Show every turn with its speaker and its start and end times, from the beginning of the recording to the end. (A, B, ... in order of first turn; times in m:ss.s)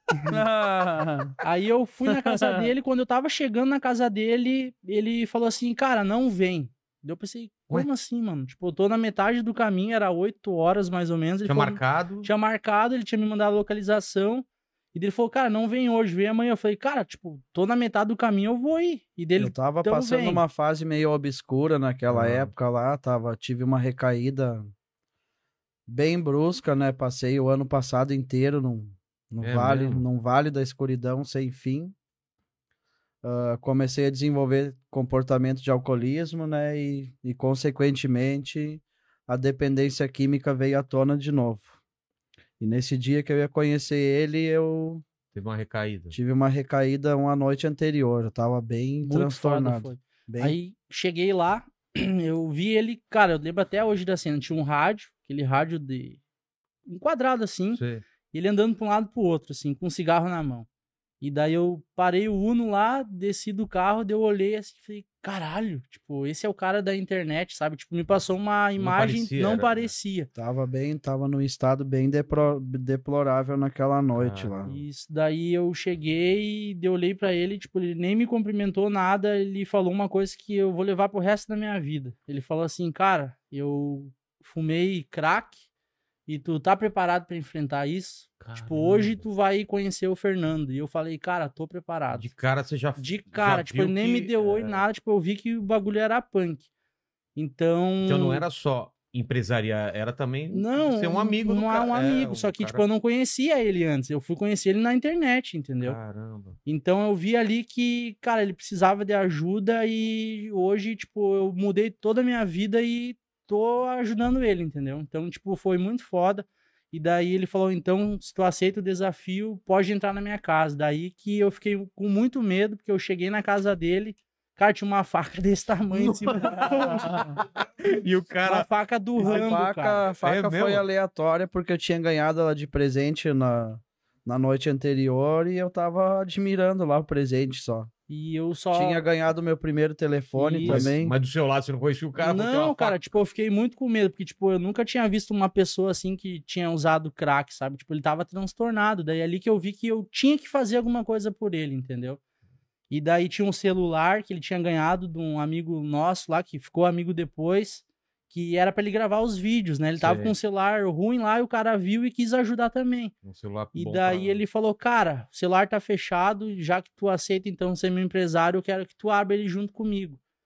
0:00.3-0:01.4 A
0:01.4-0:20.4 B
0:02.1-0:02.7 A
0:11.4-0:12.3 C
0:19.4-0:24.7 A
0:22.1-0:22.5 C
0:25.9-0:31.9 A
0:29.4-0:30.0 C
0:33.2-0:41.7 A
0:42.6-0:45.0 A
0:45.3-0:46.2 C
0:46.1-0:50.6 A
0:49.0-0:56.2 B
0:56.8-1:00.7 B
0:57.7-0:58.0 C
1:01.2-1:10.3 B
1:08.8-1:09.9 C
1:10.3-1:14.7 A
1:14.1-1:14.8 C
1:14.6-1:25.6 B
1:26.3-1:32.3 B
1:28.4-1:29.2 C
1:32.1-1:34.8 C
1:33.0-1:36.7 B
1:37.4-1:38.4 B
1:38.0-1:42.8 C
1:40.5-1:46.0 B
1:45.8-1:46.6 C
1:46.6-2:07.1 B
2:05.9-2:08.7 C
2:08.4-2:10.0 B
2:09.2-2:17.9 A
2:10.2-2:10.8 C
2:18.1-2:19.0 B
2:18.7-2:21.1 A
2:20.3-2:20.9 B
2:20.6-2:23.1 C
2:22.2-2:32.2 B
2:32.9-2:43.1 B
2:40.0-2:40.3 C
2:43.2-2:44.4 C
2:43.7-2:50.2 B